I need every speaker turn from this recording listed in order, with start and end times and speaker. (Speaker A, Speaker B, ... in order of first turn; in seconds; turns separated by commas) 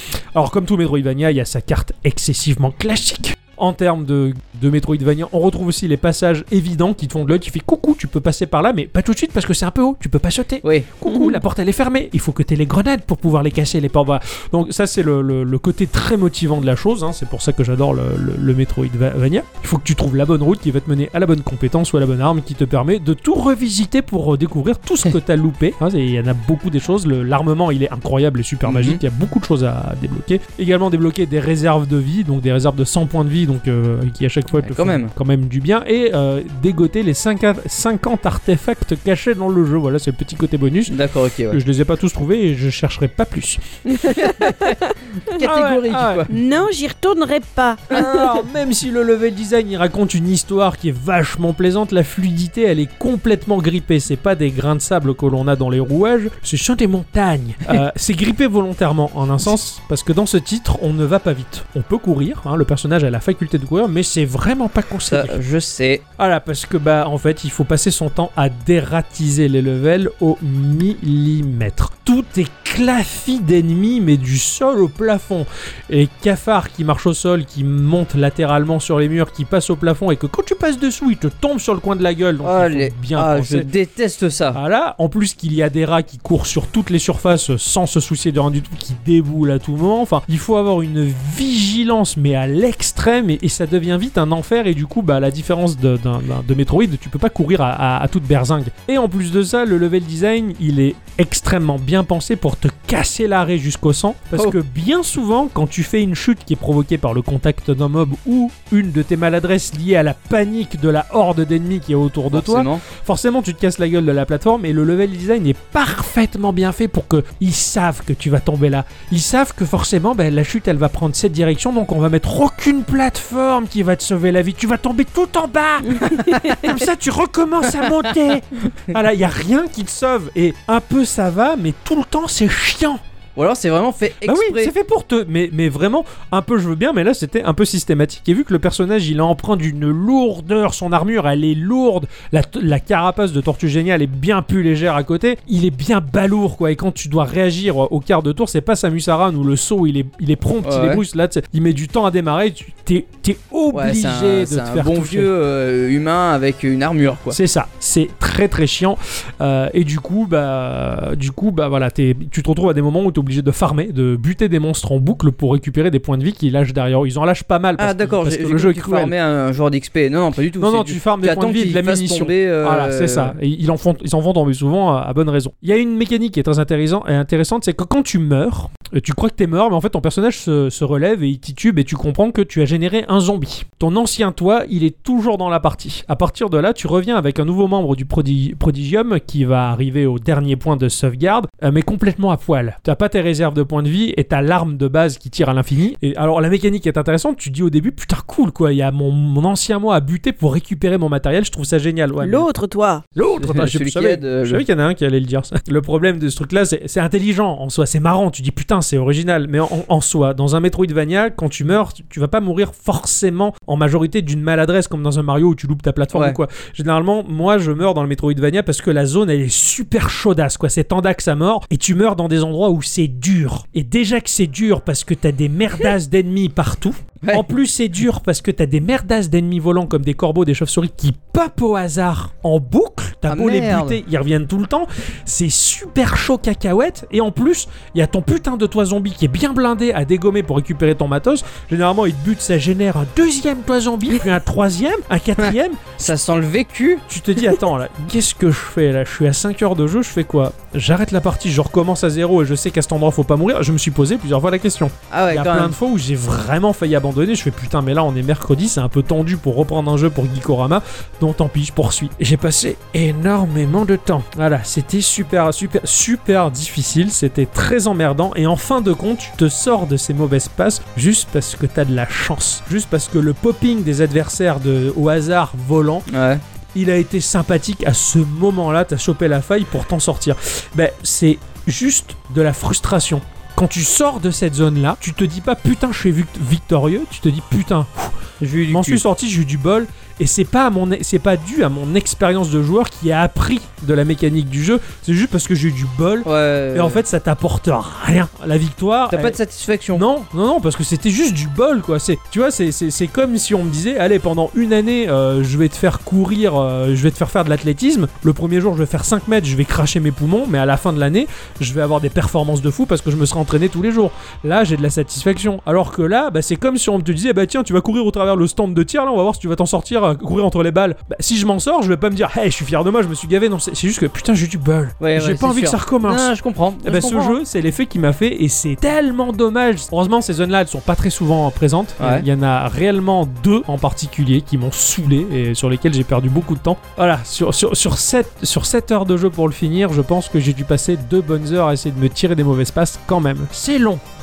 Speaker A: 0.3-41.0, Speaker B: 10.6-10.9, Speaker B: 28.6-29.0, Speaker B: 34.6-35.1, Speaker B: 40.9-41.6, Speaker A: 41.5-43.6, Speaker C: 43.9-45.4, Speaker B: 44.1-46.3, Speaker A: 45.4-46.3, Speaker C: 46.3-48.4, Speaker A: 47.9-65.4, Speaker B: 65.1-66.0, Speaker A: 66.2-83.7, Speaker B: 82.4-84.6, Speaker A: 84.5-133.0, Speaker B: 112.3-112.8, Speaker C: 125.9-126.7, Speaker B: 133.3-134.7, Speaker A: 134.2-155.3, Speaker B: 150.6-151.0, Speaker B: 153.7-157.4, Speaker A: 157.3-169.1, Speaker B: 167.8-173.3, Speaker A: 170.6-202.5, Speaker C: 202.2-203.0, Speaker A: 203.2-246.1, Speaker B: 203.4-204.6, Speaker B: 216.1-216.4, Speaker B: 227.2-227.5, Speaker B: 233.3-234.0, Speaker B: 245.4-247.0, Speaker A: 247.1-276.1, Speaker B: 255.1-255.8, Speaker B: 276.1-276.4, Speaker A: 276.7-288.2, Speaker B: 288.4-289.0, Speaker A: 288.7-299.4, Speaker B: 296.2-297.0, Speaker B: 299.1-300.1, Speaker A: 299.9-326.3, Speaker B: 325.0-327.4, Speaker A: 326.8-344.0, Speaker B: 332.0-332.2